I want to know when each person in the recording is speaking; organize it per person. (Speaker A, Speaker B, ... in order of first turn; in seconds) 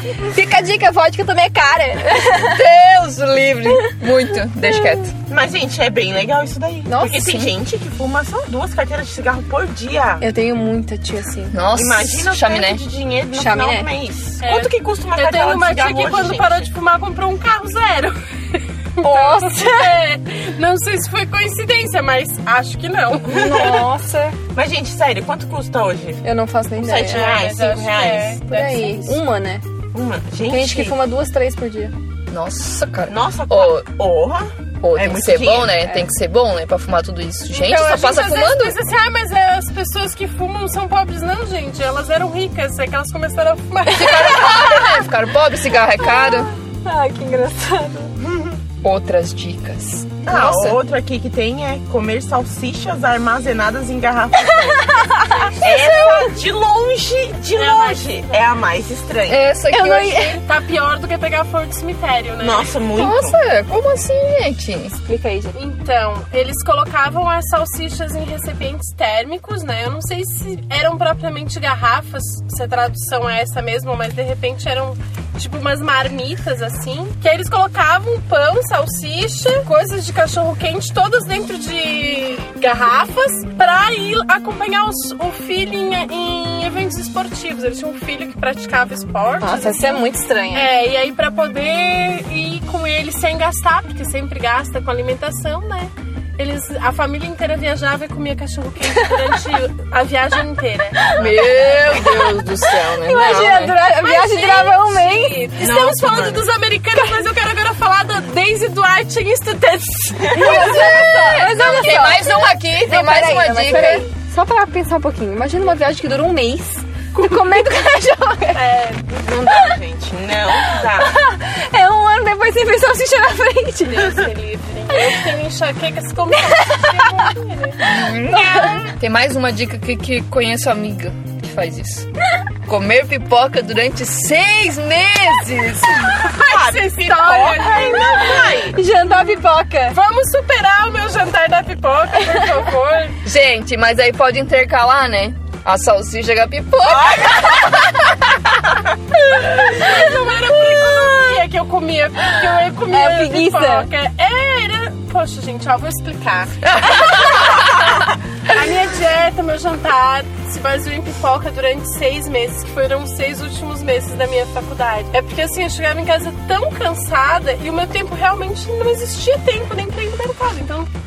Speaker A: 0.2-2.6, 6.9-7.4, 10.2-11.6, 13.3-13.9, 19.0-19.9, 23.3-24.4, 26.2-27.3, 28.5-29.6, 30.5-31.9, 44.1-44.9, 46.0-48.1, 54.5-55.5, 59.7-60.4, 65.0-65.6, 89.4-90.7, 98.9-99.2, 101.0-105.5, 110.3-118.6, 120.6-124.2, 126.5-127.3, 128.4-128.9, 137.8-140.0, 152.9-153.9
Speaker B: 2.4-5.1, 7.2-7.5, 11.5-12.8, 32.3-33.9, 34.8-38.8, 43.9-46.5, 48.8-50.8, 59.3-60.4, 63.0-65.0, 101.2-103.8, 110.4-114.1, 127.9-132.1, 132.7-136.2, 143.2-148.2, 156.9-157.4
Speaker C: 5.3-10.2, 11.7-16.7, 23.4-23.7, 24.5-26.2, 26.8-28.4, 29.9-31.0, 33.1-35.8, 48.3-48.5, 50.3-55.1, 55.6-59.5, 62.4-63.4, 105.6-106.5, 110.3-110.6, 119.2-121.1, 136.4-138.8, 146.8-147.7
Speaker D: 14.4-23.8, 27.1-29.2, 37.5-44.9, 57.5-58.4, 60.4-62.7, 65.5-101.1, 103.8-111.4, 118.5-119.3, 123.9-127.8, 136.2-138.6, 139.9-143.2, 149.4-170.9